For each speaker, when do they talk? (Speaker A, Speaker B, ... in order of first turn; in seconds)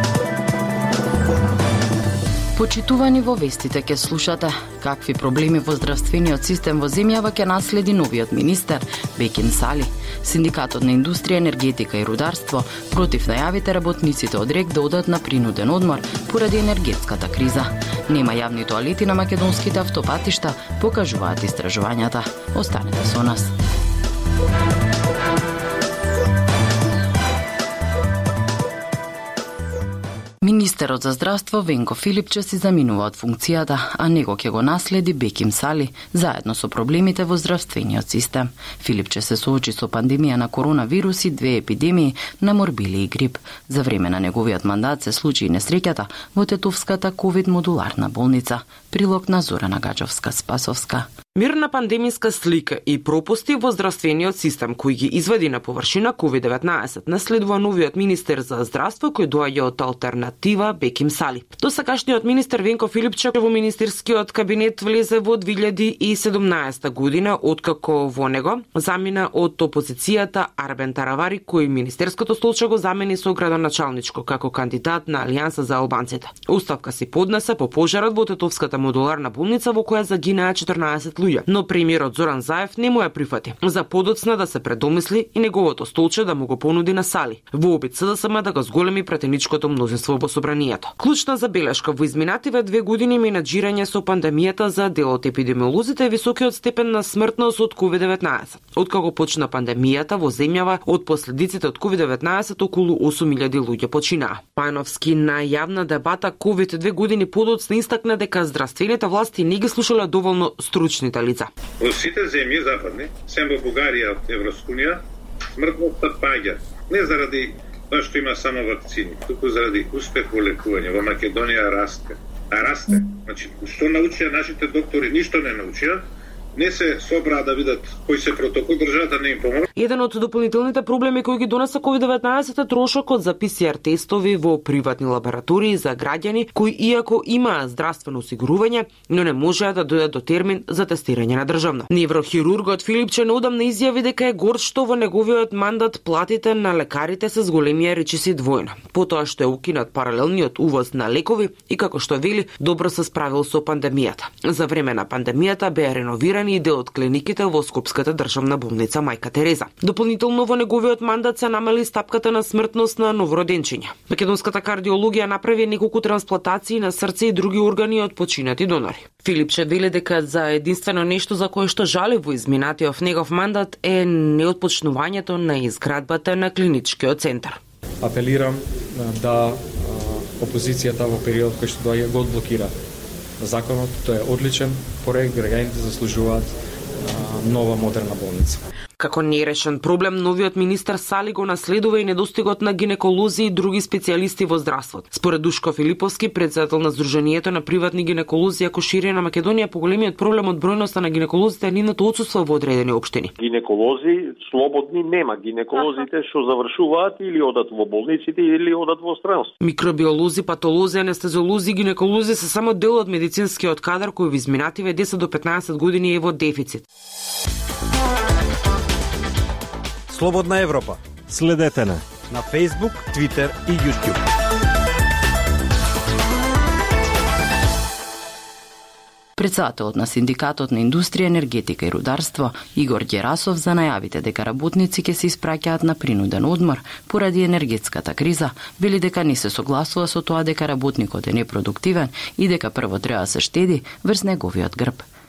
Speaker A: 2.5-23.5, 30.4-51.1, 229.4-245.0
Speaker B: 51.3-111.5, 129.8-177.6, 189.0-203.3, 209.6-216.8
Speaker C: 111.8-115.0, 115.6-126.0, 126.5-129.6
Speaker D: 178.0-182.7, 183.4-188.6
Speaker E: 203.4-209.5
Speaker F: 220.1-224.2